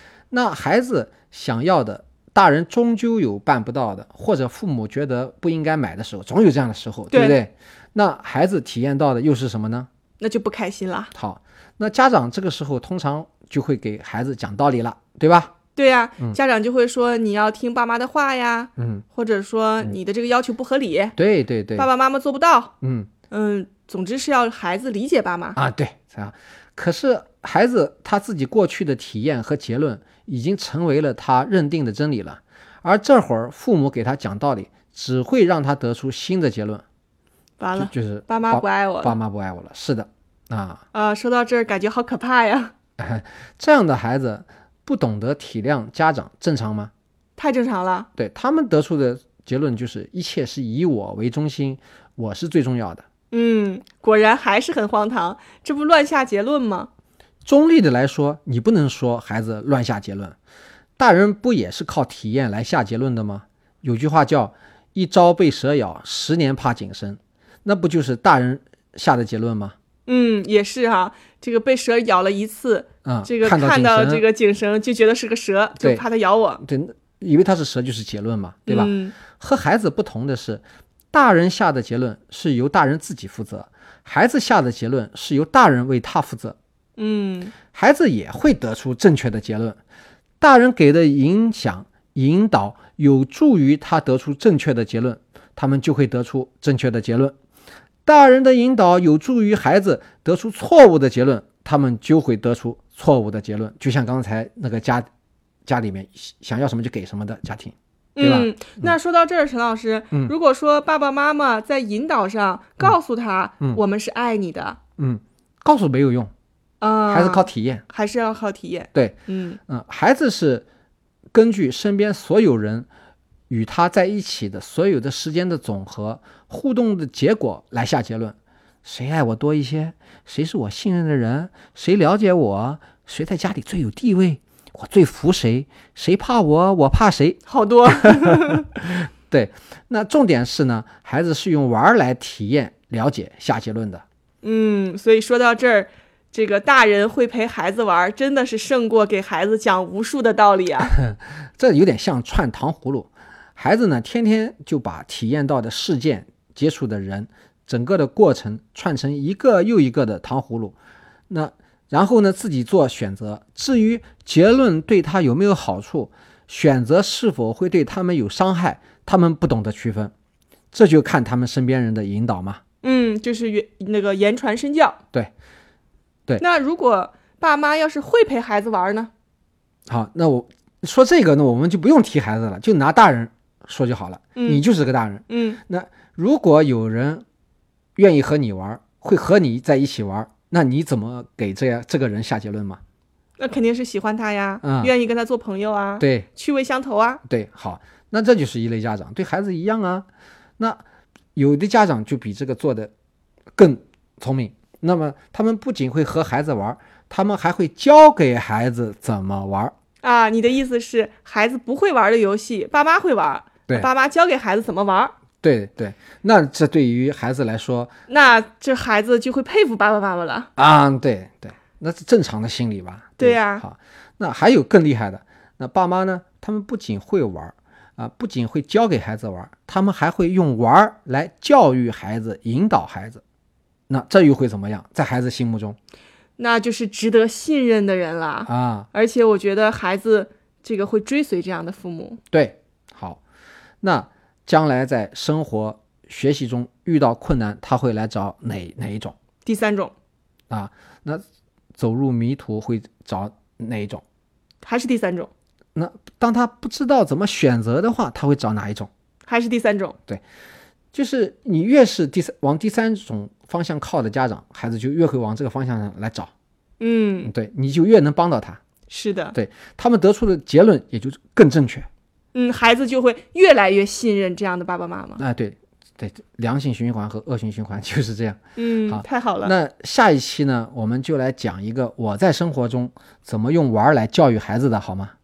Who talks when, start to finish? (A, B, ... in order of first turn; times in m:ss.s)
0:00.3-0:09.9 A
0:07.1-0:07.4 B
0:10.2-0:11.1 B
0:11.1-0:15.5 A
0:15.8-0:21.2 B
0:18.8-0:19.0 A
0:21.2-0:21.9 A
0:21.8-0:22.7 B
0:22.8-0:23.1 A
0:23.3-0:25.6 B
0:25.6-0:36.8 A
0:37.6-0:39.2 B
0:37.8-0:40.8 A
0:40.9-0:42.7 B
0:43.0-0:46.9 A
0:47.4-0:48.1 B
0:48.2-0:53.0 A
0:53.3-0:56.9 B
0:57.4-1:00.4 A
1:01.0-1:09.8 A
1:10.1-1:16.6 B
1:13.0-1:14.2 A
1:16.6-1:26.6 A
1:18.7-1:19.2 B
1:27.0-1:27.6 B
1:27.7-1:29.8 A
1:30.4-1:37.4 A
1:38.0-1:45.1 A
1:45.7-1:49.0 A
1:48.2-1:54.8 B
1:55.0-1:56.3 A
1:56.8-1:59.6 B
1:57.1-1:57.8 A
1:59.7-2:00.7 A
2:01.3-2:02.9 A
2:03.5-2:24.0 A
2:17.5-2:18.7 B
2:24.4-2:30.9 B
2:30.8-2:40.8 A
2:41.3-2:50.1 A
2:50.7-2:52.6 A
2:52.8-2:55.0 B
2:56.4-2:59.1 B
2:59.9-3:07.2 A
3:04.4-3:04.6 B
3:05.3-3:05.6 B
3:08.0-3:12.8 A
3:13.4-3:17.2 B
3:14.6-3:14.9 A
3:16.0-3:16.3 A
3:17.3-3:20.1 A
3:21.4-3:22.9 A
3:23.6-3:29.7 A
3:30.0-3:35.1 B
3:35.4-3:37.9 A
3:38.1-3:40.5 B
3:40.6-3:53.2 A
3:43.2-3:43.6 B
3:53.9-3:55.8 A
3:56.4-4:02.2 B
3:58.5-3:58.9 A
4:02.3-4:03.2 A
4:03.8-4:09.2 A
4:09.4-4:09.9 B
4:10.5-4:11.2 A
4:11.8-4:14.0 A
4:14.6-4:15.3 B
4:15.8-4:18.9 A
4:19.3-4:20.0 B
4:20.9-4:26.3 A
4:26.8-4:27.3 B
4:27.2-4:28.6 A
4:28.9-4:29.4 B
4:29.3-4:31.9 A
4:32.3-4:35.2 B
4:35.2-4:45.1 A
4:38.6-4:39.5 B